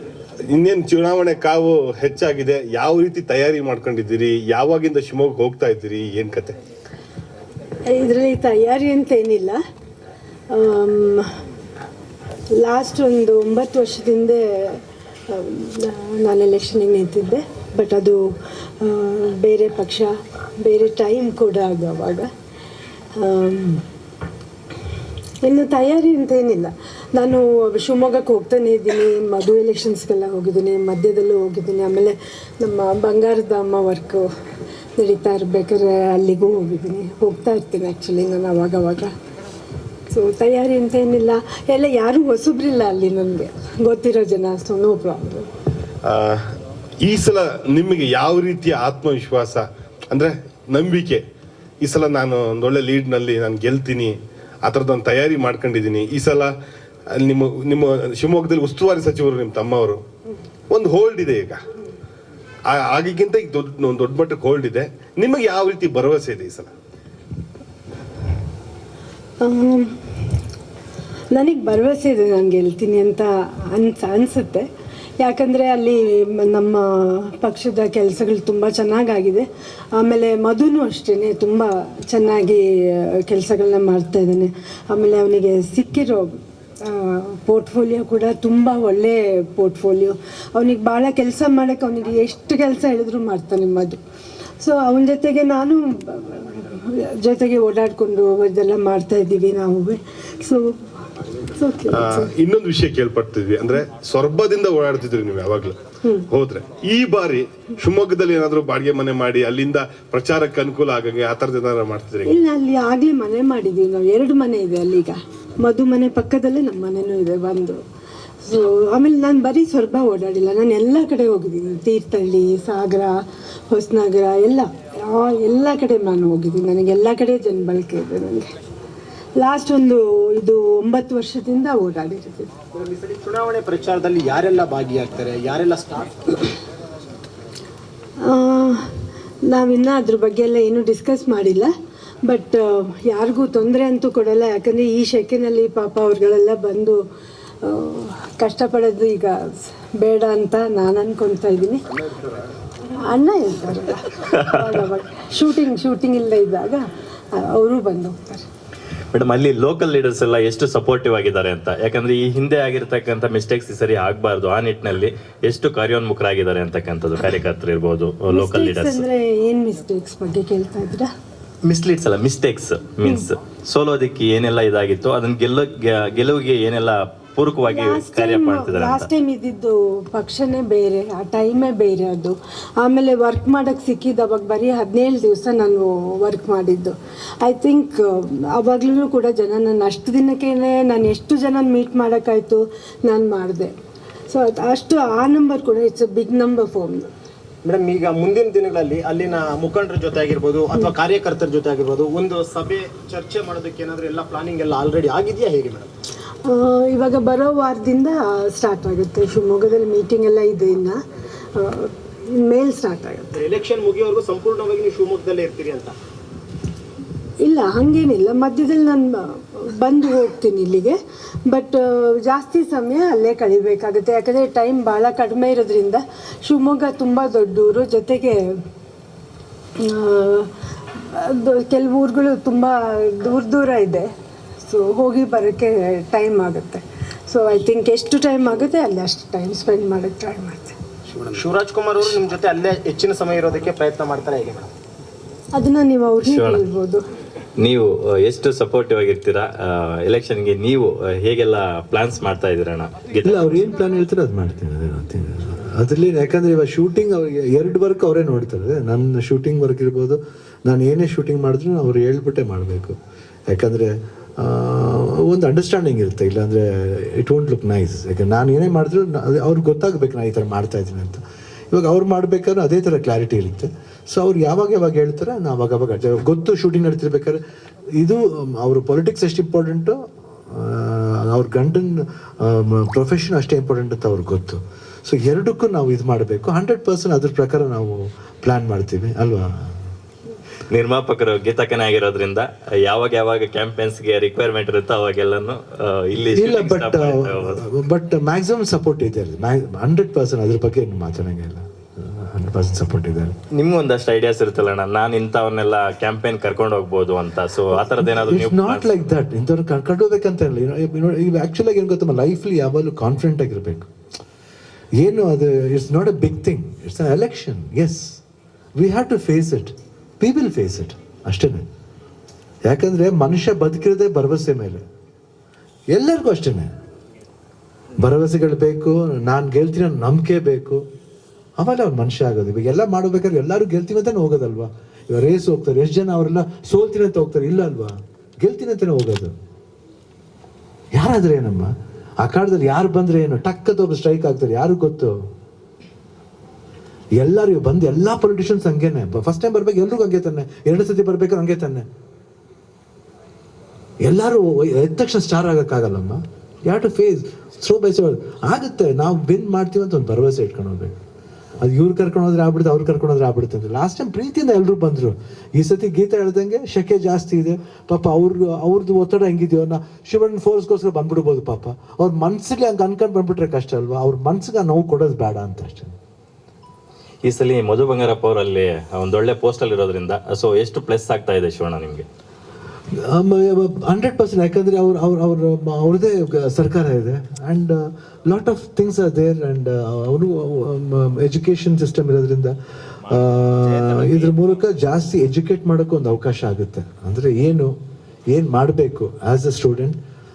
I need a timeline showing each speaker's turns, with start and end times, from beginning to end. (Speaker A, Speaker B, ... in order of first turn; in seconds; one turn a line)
Speaker A: 0.5-6.5
Speaker B: 7.9-9.6
Speaker B: 10.5-11.2
Speaker B: 12.5-18.2
Speaker B: 18.8-22.3
Speaker B: 23.2-23.8
Speaker B: 25.4-34.3
Speaker B: 35.0-39.1
Speaker B: 40.1-45.5
Speaker A: 46.0-46.4
Speaker A: 47.0-51.2
Speaker A: 51.8-56.5
Speaker A: 57.1-60.0
Speaker A: 60.7-61.6
Speaker A: 62.7-66.7
Speaker B: 69.4-70.0
Speaker B: 71.3-74.7
Speaker B: 75.2-94.0
Speaker B: 94.6-100.7
Speaker B: 101.4-102.3
Speaker A: 101.9-105.8
Speaker A: 106.3-112.4
Speaker B: 112.2-117.8
Speaker B: 118.4-128.5
Speaker B: 129.4-132.5
Speaker C: 132.8-136.3
Speaker B: 138.2-138.8
Speaker B: 139.4-141.7
Speaker B: 142.2-147.0
Speaker B: 147.6-151.8
Speaker B: 152.9-158.4
Speaker D: 159.1-169.0
Speaker B: 168.3-171.1
Speaker D: 171.6-179.1
Speaker B: 177.7-193.7
Speaker B: 194.3-197.1
Speaker C: 197.6-205.9
Speaker B: 206.4-211.0
Speaker B: 211.5-213.4
Speaker C: 213.3-215.9
Speaker B: 217.4-228.4
Speaker B: 229.8-230.5
Speaker B: 231.1-234.1
Speaker B: 234.6-240.8
Speaker C: 241.2-244.7
Speaker B: 245.5-247.0
Speaker D: 246.2-246.6
Speaker D: 247.6-253.6
Speaker E: 253.2-263.0
Speaker E: 263.5-277.4
Speaker E: 277.9-289.8
Speaker D: 290.7-297.6
Speaker E: 296.1-303.3
Speaker D: 303.5-309.0
Speaker E: 308.1-313.9
Speaker E: 315.0-318.2
Speaker E: 318.8-321.6
Speaker E: 322.6-324.8
Speaker E: 325.9-326.7
Speaker E: 328.0-330.8
Speaker E: 331.6-339.3
Speaker E: 340.9-345.2
Speaker E: 347.1-351.9
Speaker E: 354.0-360.9
Speaker E: 361.6-375.9
Speaker D: 377.2-382.0
Speaker E: 382.9-392.5
Speaker E: 393.1-397.7
Speaker E: 398.3-400.0